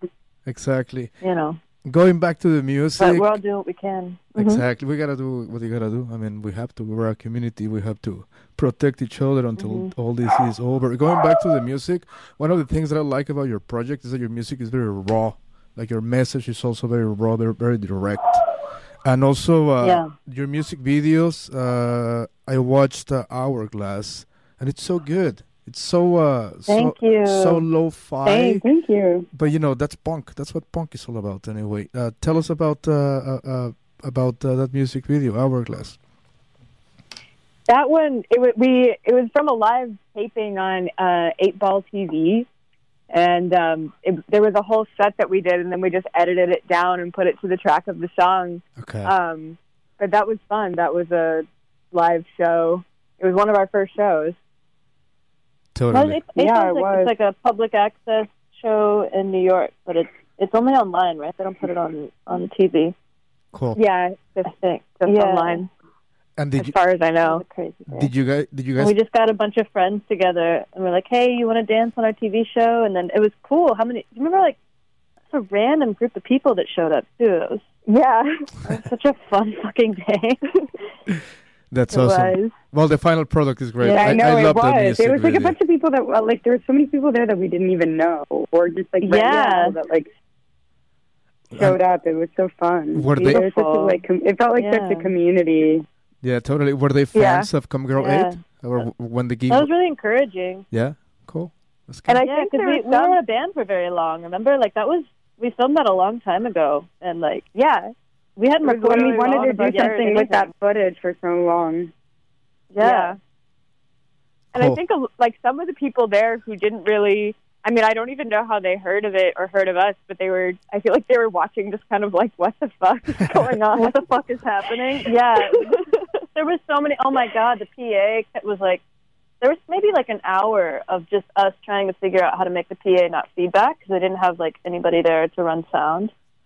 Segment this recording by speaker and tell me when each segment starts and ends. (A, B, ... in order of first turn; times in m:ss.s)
0:00.5-0:01.1 A
0:01.2-0:01.6 B
0:01.8-0:03.4 A
0:03.0-0:04.6 B
0:04.4-0:18.4 A
0:09.6-0:09.9 B
0:19.0-0:28.6 A
0:19.8-0:20.1 B
0:26.7-0:27.6 B
0:28.3-0:28.6 B
0:28.6-0:29.3 C
0:29.3-0:36.0 A
0:37.7-0:42.5 D
0:43.1-0:54.4 D
0:48.8-0:49.1 A
0:55.8-0:56.2 A
0:55.9-1:03.0 B
0:56.4-0:57.1 C
1:03.5-1:03.8 A
1:03.8-1:05.7 D
1:05.0-1:05.6 B
1:06.4-1:06.7 A
1:06.6-1:07.4 D
1:07.2-1:08.1 B
1:07.9-1:09.0 A
1:08.8-1:14.6 B
1:15.3-1:17.6 B
1:17.9-1:18.5 D
1:18.6-1:20.4 B
1:21.7-1:25.6 A
1:21.9-1:22.4 D
1:21.9-1:22.4 B
1:23.8-1:24.2 B
1:23.9-1:30.1 C
1:29.0-1:29.8 B
1:31.5-1:31.8 A
1:31.6-1:35.9 C
1:32.9-1:33.4 A
1:33.2-1:34.0 B
1:33.6-1:33.8 D
1:34.6-1:35.1 B
1:36.2-1:39.7 A
1:37.2-1:37.5 D
1:38.0-1:38.4 B
1:39.5-1:40.6 B
1:40.7-1:42.2 A
1:42.1-1:43.2 D
1:42.2-1:47.5 B
1:47.6-1:47.9 D
1:48.4-1:50.5 B
1:48.6-1:50.2 D
1:48.7-1:51.9 C
1:52.7-1:53.2 D
1:52.8-1:53.2 B
1:54.5-1:54.8 A
1:54.5-2:04.0 D
2:03.8-2:08.8 B
2:09.4-2:16.1 B